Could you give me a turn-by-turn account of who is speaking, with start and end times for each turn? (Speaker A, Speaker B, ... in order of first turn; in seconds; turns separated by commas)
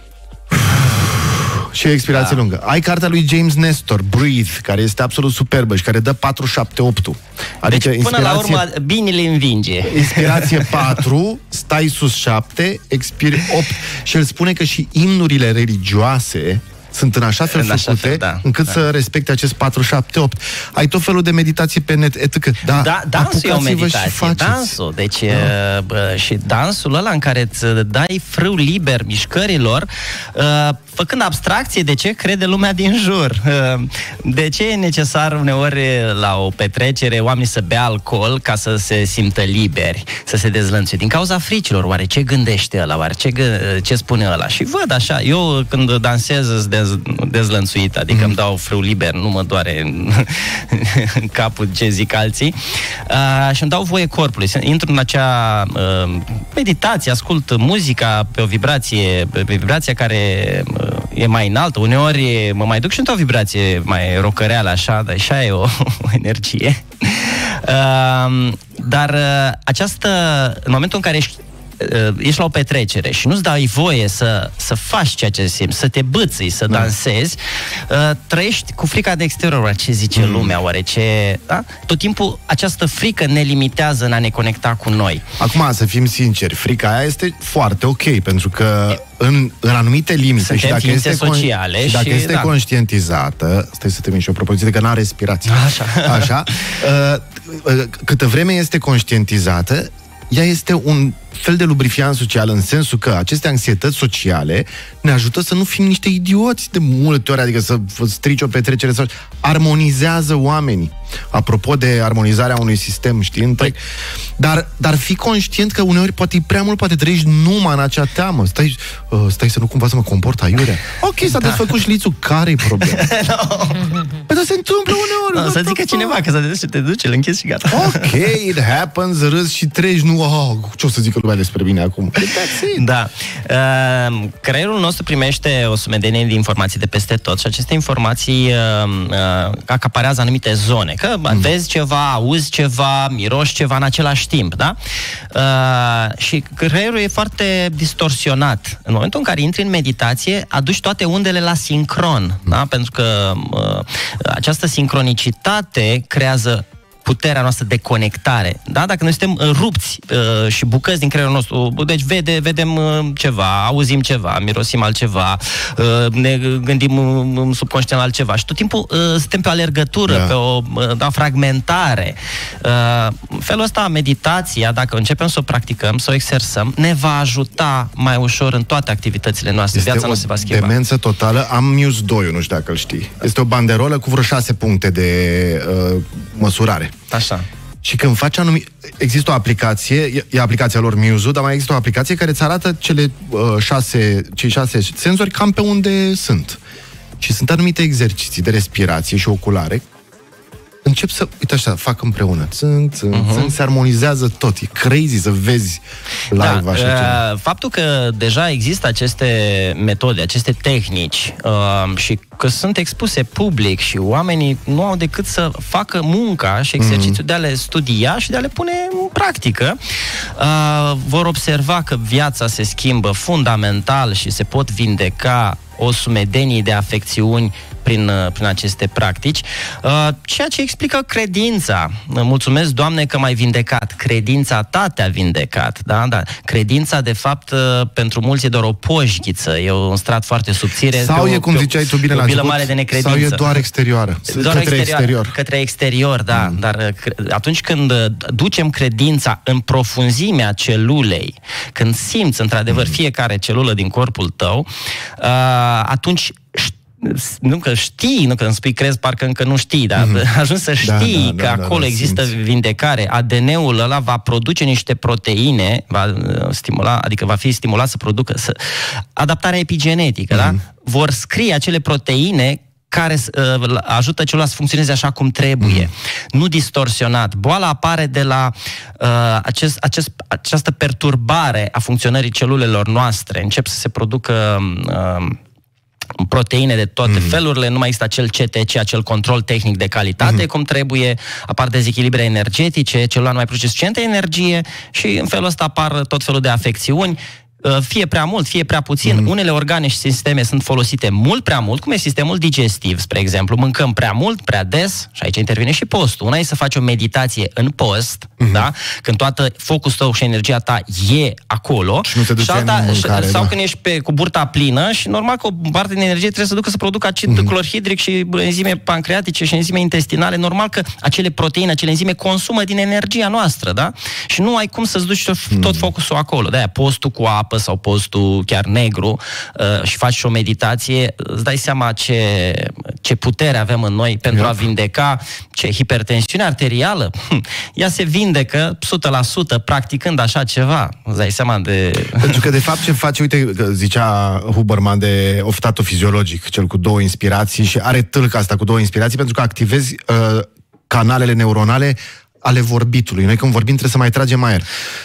Speaker A: 0.5-8.7, Speaker B: 2.1-2.4, Speaker B: 7.7-11.0, Speaker A: 9.8-24.8, Speaker B: 17.5-18.8, Speaker B: 22.6-85.2, Speaker A: 48.1-48.3, Speaker A: 80.1-80.6, Speaker A: 85.4-113.8, Speaker B: 90.4-92.5, Speaker B: 95.5-96.7, Speaker A: 114.4-123.1, Speaker B: 121.3-121.7, Speaker B: 122.8-124.2, Speaker A: 124.2-126.2, Speaker B: 125.3-128.3, Speaker A: 127.7-132.8, Speaker B: 132.7-144.8, Speaker B: 145.3-180.7, Speaker A: 170.1-170.3, Speaker A: 179.7-186.9, Speaker B: 187.1-187.4, Speaker A: 187.8-196.6, Speaker A: 197.2-199.8, Speaker A: 200.8-207.2, Speaker B: 203.1-203.5, Speaker B: 206.3-219.8, Speaker A: 216.8-217.2, Speaker B: 220.3-243.6, Speaker A: 240.9-245.3, Speaker B: 244.3-285.4, Speaker A: 246.3-246.6, Speaker A: 260.0-260.2, Speaker A: 260.8-262.3, Speaker A: 270.3-270.6, Speaker A: 275.6-275.9, Speaker B: 286.2-342.5, Speaker A: 287.1-287.4, Speaker A: 299.0-299.3, Speaker A: 308.4-308.7, Speaker A: 312.0-313.5, Speaker A: 317.3-317.5, Speaker A: 325.5-325.9, Speaker A: 334.3-334.6, Speaker A: 342.2-354.6